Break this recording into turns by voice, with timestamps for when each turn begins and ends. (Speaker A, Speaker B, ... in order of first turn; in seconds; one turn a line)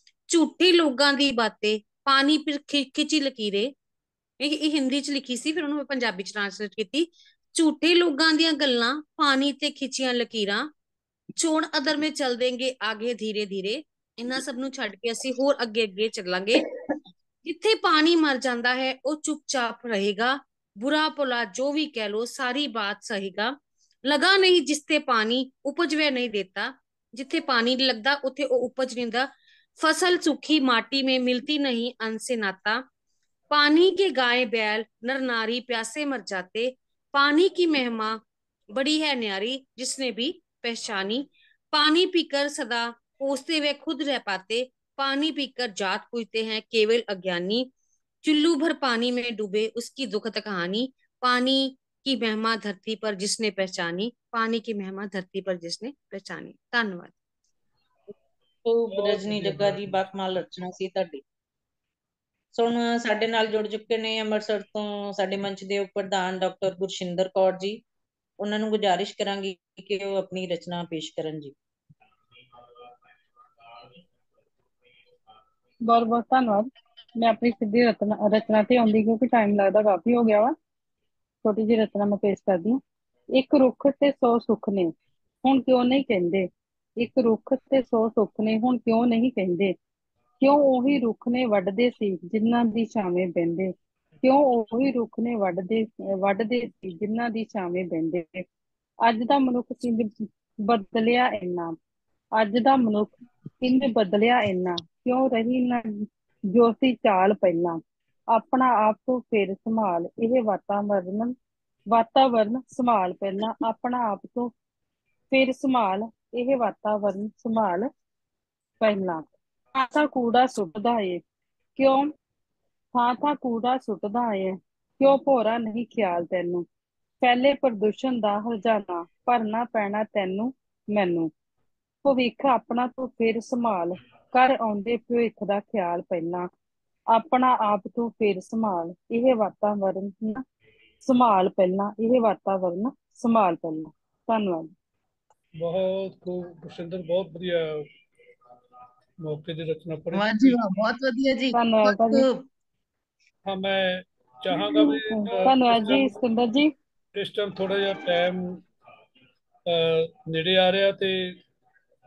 Speaker A: 0.3-3.7
Speaker A: 4.4-10.7
Speaker A: 11.4-16.6
Speaker A: 17.4-32.8
Speaker A: 33.5-47.7
Speaker A: 48.2-57.1
Speaker B: 58.6-61.2
Speaker C: 58.9-60.0
Speaker B: 62.5-67.8
Speaker B: 68.4-71.5
Speaker D: 75.9-80.5
Speaker D: 81.4-82.8
Speaker D: 83.3-84.9
Speaker D: 85.4-89.8
Speaker D: 90.4-98.5
Speaker D: 99.1-101.8
Speaker D: 102.4-107.8
Speaker D: 108.3-111.3
Speaker D: 111.9-114.5
Speaker D: 115.3-117.9
Speaker D: 118.8-121.2
Speaker D: 121.8-122.1
Speaker D: 123.0-126.7
Speaker D: 127.2-131.3
Speaker D: 132.0-136.5
Speaker D: 137.1-140.4
Speaker D: 141.1-144.7
Speaker C: 145.6-147.9
Speaker C: 149.2-150.6
Speaker E: 150.1-152.5
Speaker D: 151.5-152.3
Speaker C: 153.5-156.1
Speaker D: 154.5-156.7
Speaker C: 157.2-158.6
Speaker C: 159.7-161.4